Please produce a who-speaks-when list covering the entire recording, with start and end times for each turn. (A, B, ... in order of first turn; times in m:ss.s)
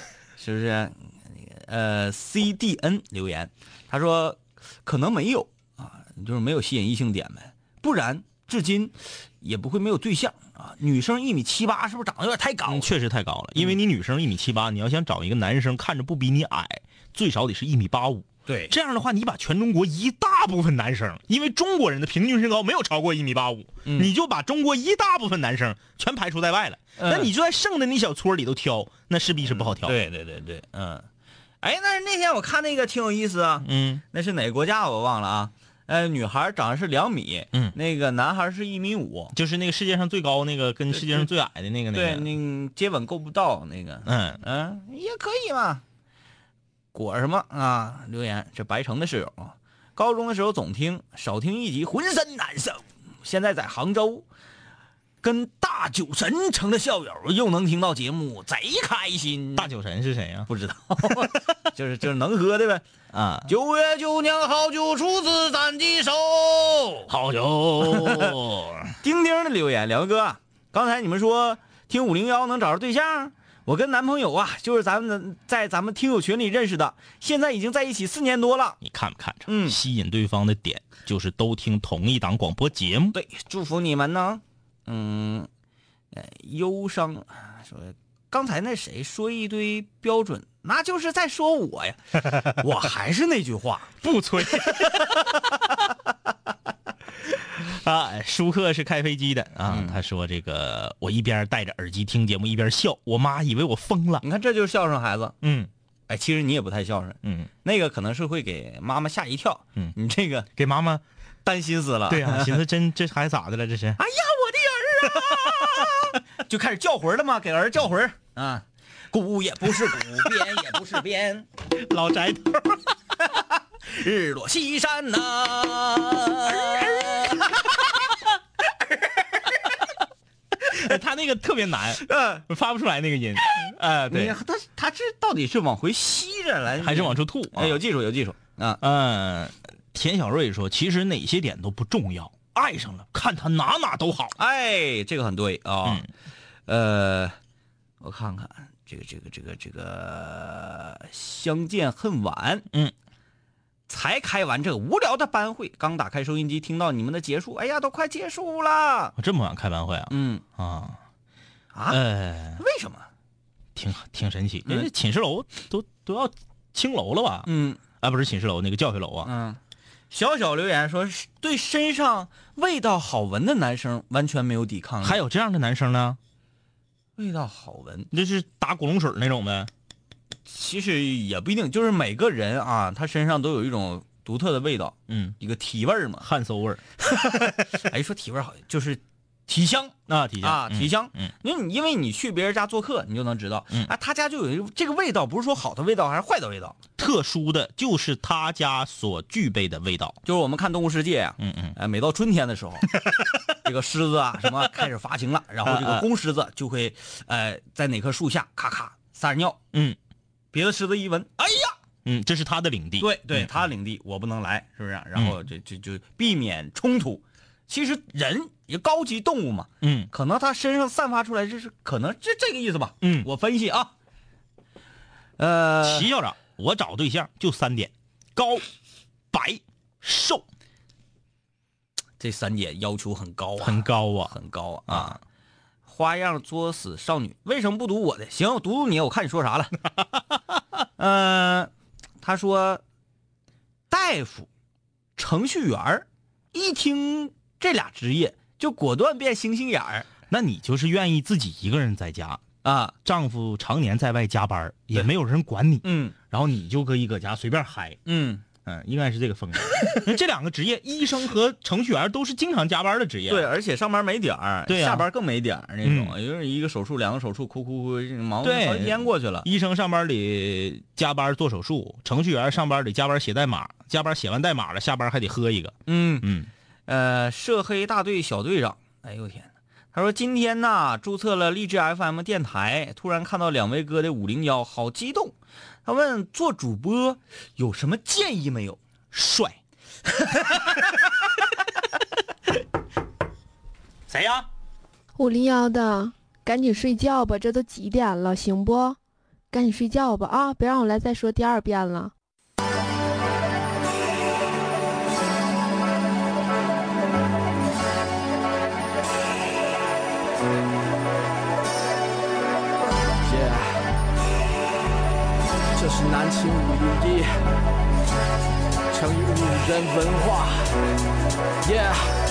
0:00.4-0:12.9 A
0:12.6-0:30.0 B
0:18.5-0:18.7 A
0:23.8-0:24.1 A
0:27.0-0:27.3 A
0:29.4-0:31.1 A
0:31.6-0:39.3 A
0:33.6-0:34.0 B
0:39.3-0:42.3 B
0:40.9-0:41.3 A
0:41.9-0:45.8 A
0:44.0-0:44.4 B
0:46.9-0:54.2 A
0:55.2-0:59.7 A
0:59.6-1:00.5 B
1:00.5-1:02.8 A
1:03.1-1:03.5 B
1:03.5-1:07.1 A
1:07.1-1:08.9 B
1:07.8-1:08.3 A
1:09.0-1:18.8 A
1:18.8-1:23.2 B
1:19.5-1:19.8 A
1:23.1-1:25.5 A
1:26.1-1:33.9 A
1:34.0-1:35.9 B
1:34.6-1:35.0 A
1:37.3-1:44.2 B
1:39.7-1:40.0 A
1:44.2-1:45.4 A
1:45.4-1:45.7 B
1:46.1-1:50.5 A
1:47.2-1:47.5 B
1:50.6-1:51.0 B
1:51.4-1:52.6 A
1:52.1-1:54.0 B
1:54.0-2:01.5 A
1:55.1-1:55.9 B
2:01.7-2:02.9 B
2:03.4-2:07.7 A
2:06.5-2:07.4 B
2:08.8-2:09.6 A
2:10.6-2:14.4 B
2:12.0-2:12.4 A
2:14.1-2:18.8 A
2:16.8-2:17.8 B
2:18.8-2:24.4 B
2:24.4-2:26.1 A
2:26.7-2:27.4 A
2:28.0-2:32.6 A
2:33.9-2:39.1 A
2:39.2-2:41.0 B
2:40.1-2:40.4 A
2:41.7-2:42.0 A
2:41.9-2:42.6 B
2:42.6-2:43.1 A
2:43.7-2:47.5 B
2:47.5-2:47.8 A
2:48.0-2:49.3 B
2:49.2-2:49.6 A
2:50.1-2:55.2 A
2:55.0-2:56.2 B
2:57.2-2:58.1 A
2:58.1-2:59.7 B
3:00.5-3:06.2 A
3:05.1-3:05.4 B
3:06.2-3:07.3 B
3:07.0-3:16.8 A
3:10.1-3:11.3 B
3:17.0-3:20.2 B
3:20.2-3:23.0 A
3:21.4-3:21.8 B
3:23.6-3:29.6 A
3:25.6-3:26.1 B
3:29.7-3:30.0 B
3:30.5-3:31.7 A
3:32.0-3:33.5 B
3:33.0-3:43.9 A
3:39.8-3:40.1 B
3:43.0-3:43.3 B
3:45.4-3:46.1 A
3:45.8-3:48.6 B
3:49.3-3:50.4 B
3:52.2-3:55.2 A
3:53.6-3:54.3 B
3:54.9-3:55.2 B
3:55.9-3:59.7 A
4:01.0-4:01.7 A
4:02.2-4:02.8 A
4:03.9-4:04.5 A
4:05.2-4:10.1 A
4:10.3-4:12.4 B
4:12.6-4:12.9 A
4:13.0-4:18.0 B
4:15.8-4:16.1 A
4:18.0-4:18.4 A
4:18.6-4:23.5 B
4:23.3-4:29.4 A
4:24.7-4:25.1 B
4:25.8-4:26.2 B
4:28.4-4:36.5 B
4:35.9-4:36.3 A
4:36.9-4:45.3 A
4:45.8-4:48.8 A
4:49.1-4:49.6 B
4:54.1-4:54.5 B
4:55.2-4:59.0 C
4:59.5-5:02.1 C
5:13.2-5:13.8 D
5:15.8-5:17.3 D
5:18.9-5:20.6 D
5:21.6-5:22.0 D